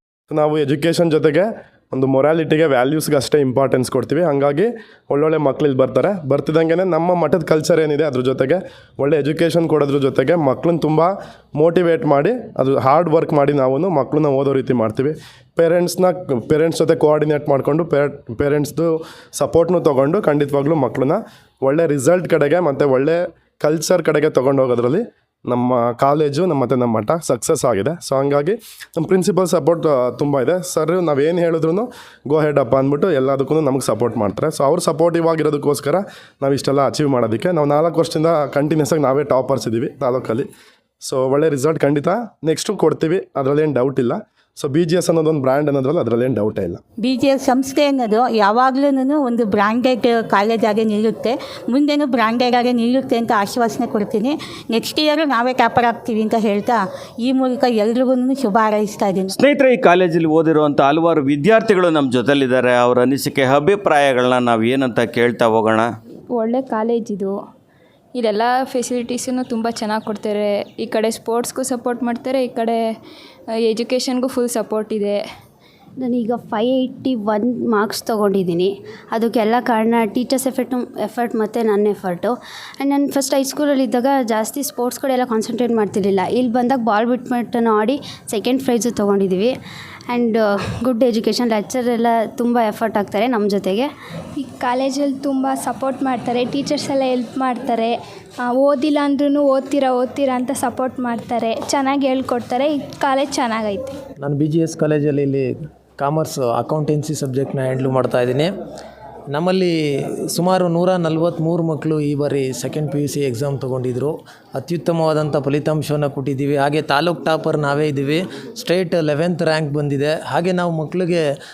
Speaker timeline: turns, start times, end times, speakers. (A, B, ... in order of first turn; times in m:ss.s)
0:00.3-0:40.5 A
0:41.0-0:46.8 A
0:47.0-0:59.4 B
0:59.4-1:05.9 C
1:06.3-1:07.4 D
1:08.1-1:12.8 D
1:13.6-1:15.2 D
1:16.0-1:29.5 E
1:30.1-1:33.9 E
1:34.4-1:37.9 F
1:38.4-1:43.9 F
1:44.2-1:48.5 G
1:49.3-1:49.7 G
1:50.3-2:01.2 G